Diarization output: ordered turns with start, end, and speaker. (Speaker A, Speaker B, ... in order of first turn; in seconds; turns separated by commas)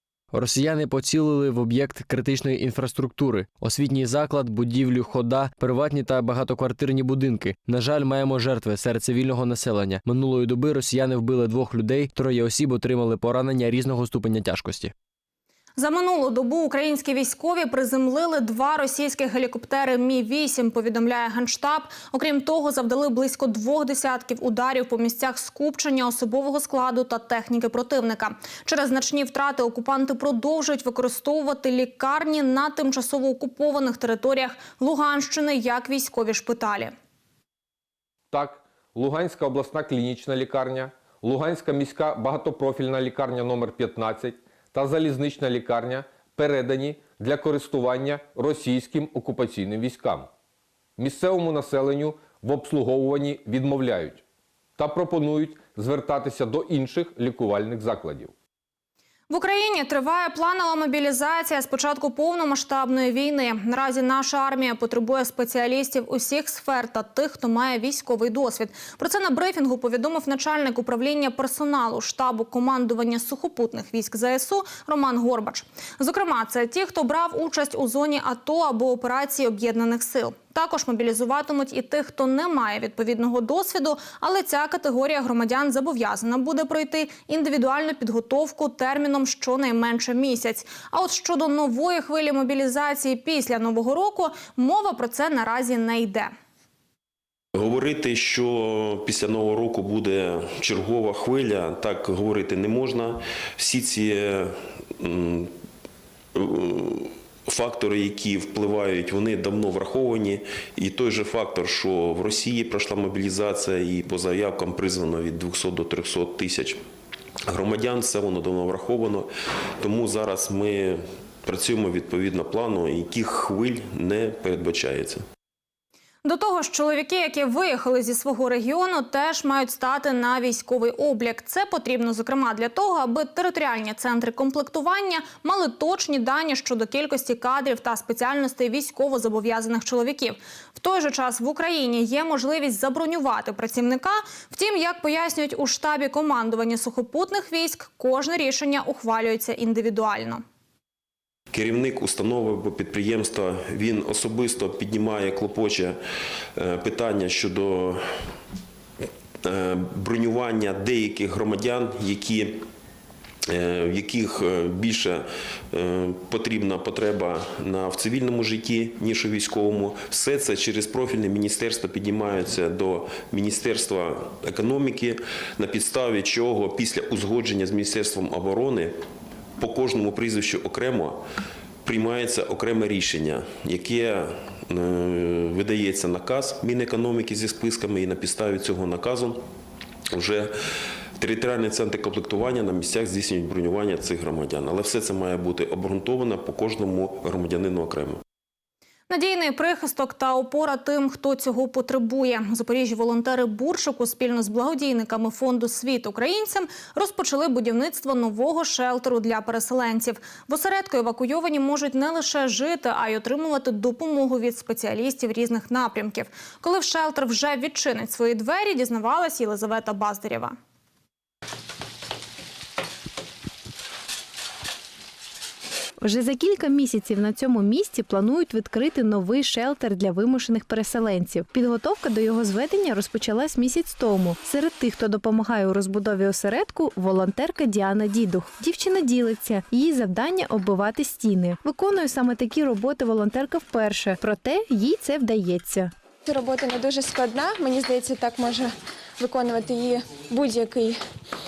Speaker A: 0.3-14.9, Speaker B: 15.8-36.9, Speaker C: 38.3-50.3, Speaker C: 51.0-54.2, Speaker C: 54.8-58.3, Speaker B: 59.3-96.3, Speaker D: 97.5-105.5, Speaker D: 106.3-116.8, Speaker D: 117.5-125.2, Speaker B: 126.2-150.4, Speaker D: 151.5-156.0, Speaker D: 156.6-158.3, Speaker D: 159.4-162.6, Speaker D: 163.5-178.9, Speaker D: 179.6-181.2, Speaker D: 181.8-189.4, Speaker D: 190.1-190.6, Speaker D: 191.2-198.2, Speaker B: 199.1-220.6, Speaker E: 226.0-245.9, Speaker F: 246.2-251.0